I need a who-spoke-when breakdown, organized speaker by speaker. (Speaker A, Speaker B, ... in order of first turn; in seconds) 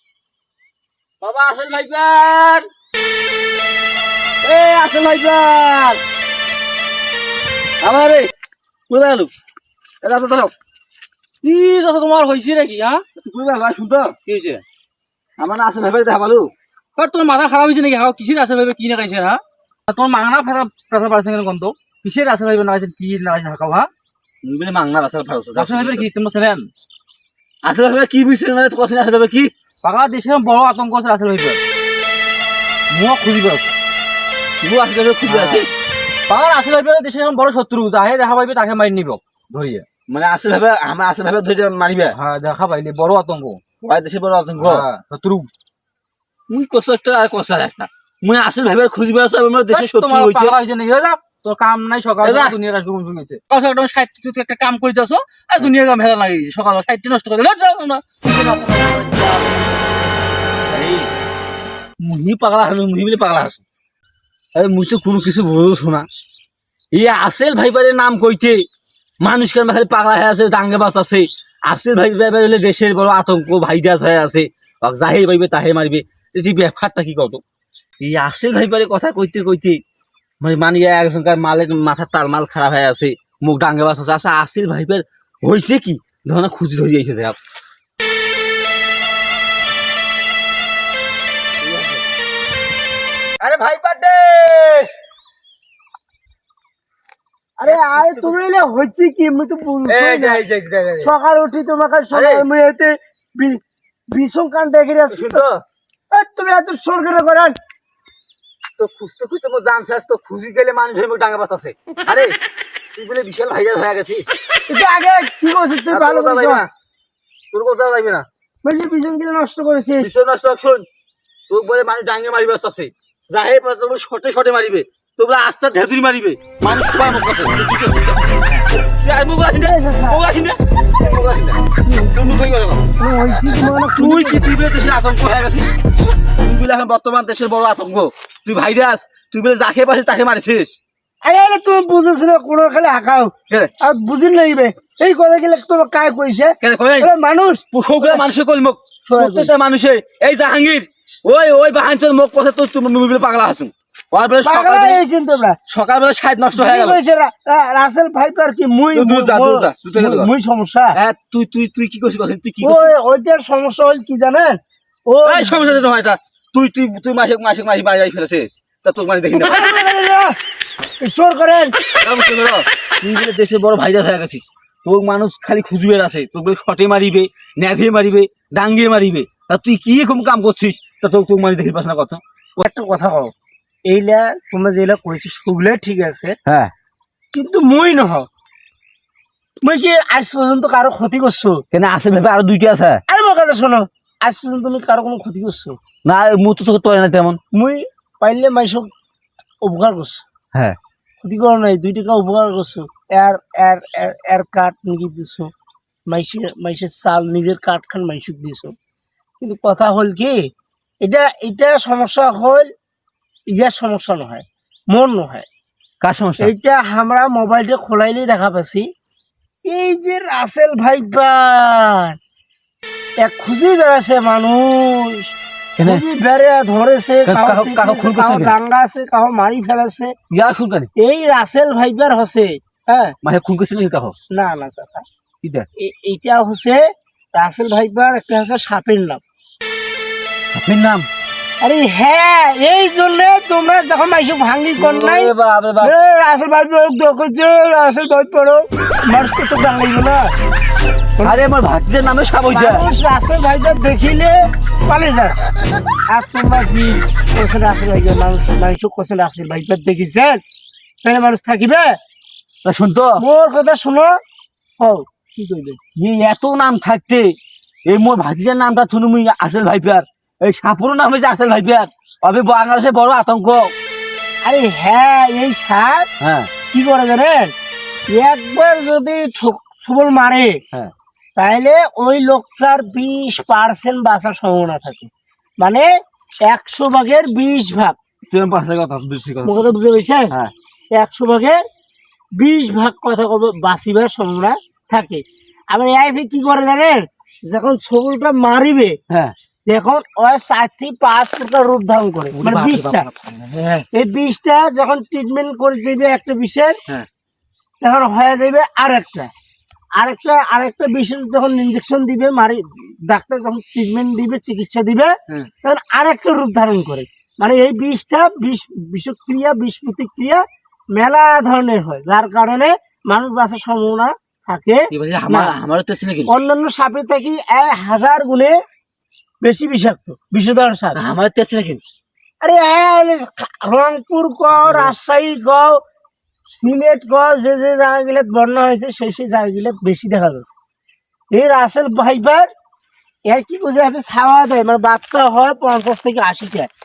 Speaker A: 1.2-2.6, 4.4-6.0, 7.8-8.3, 8.9-9.3, 10.0-10.5, 13.2-14.3, 15.4-16.5, 24.4-26.1, 27.6-29.5, 34.6-35.8, 40.1-42.2, 43.8-44.9, 46.5-50.6, 52.2-52.6, 60.7-61.1, 62.0-63.6, 64.5-66.1, 66.9-68.6, 69.2-77.4, 78.0-79.8, 80.4-87.4, 91.7-91.9, 93.4-94.9, 97.6-98.3, 99.9-101.1, 102.1-102.5, 105.1-105.6, 108.8-112.3, 113.0-114.2, 115.9-116.7, 117.5-118.2, 120.0-120.8, 121.5-132.8, 134.0-135.8, 136.4-140.8, 146.6-147.1, 147.7-155.0, 155.7-157.0, 158.9-160.3, 160.9-162.9, 165.2-169.8, 172.0-182.7, 186.5-186.7, 191.7-193.0, 196.1-197.4, 216.0-216.5, 225.8-226.1, 227.3-228.6, 230.3-230.9, 233.2-234.1, 240.6-241.1, 244.8-245.9, 251.2-252.9, 262.6-263.2, 266.0-267.3, 267.9-273.7, 276.2-276.5, 288.3-289.7, 302.3-303.9, 324.9-326.3, 330.9-331.8, 334.6-334.9
Speaker B: 11.4-13.0, 14.3-14.6, 17.0-23.9, 25.6-26.7, 29.8-31.6, 32.9-33.7, 35.3-35.6, 36.3-39.9, 42.1-43.8, 44.6-45.5, 49.7-59.6
Speaker C: 97.6-100.4, 101.0-103.6, 104.1-105.4, 106.1-107.5, 114.7-116.6, 118.6-120.1, 129.6-130.2, 131.9-132.1, 133.0-134.5, 141.2-148.2, 149.1-149.5, 154.4-155.6, 156.5-160.9, 162.6-165.7, 169.3-170.3, 171.0-171.7, 182.7-183.3, 183.9-186.3, 187.3-188.3, 189.6-191.6, 193.1-195.8, 197.5-198.9, 199.7-200.2, 201.2-205.5, 206.1-208.7, 209.4-210.4, 211.0-212.7, 213.6-215.5, 216.4-218.8, 219.7-222.2, 223.2-225.3, 225.8-230.1, 231.0-233.1, 234.3-235.1, 235.8-236.8, 237.3-239.2, 241.6-250.3, 252.5-255.5, 256.1-260.4, 261.0-261.9, 263.2-264.1, 264.8-265.8, 274.4-276.1, 276.7-277.5, 278.1-280.6, 281.4-285.1, 285.6-285.9, 286.5-288.0, 289.4-290.3, 291.0-291.6, 292.4-298.9, 299.7-303.1, 303.9-306.8, 307.8-309.3, 310.0-315.1, 315.6-320.4, 320.9-325.5, 326.3-328.5, 329.4-331.0, 332.4-335.8, 336.6-340.5, 341.3-342.5, 343.3-346.7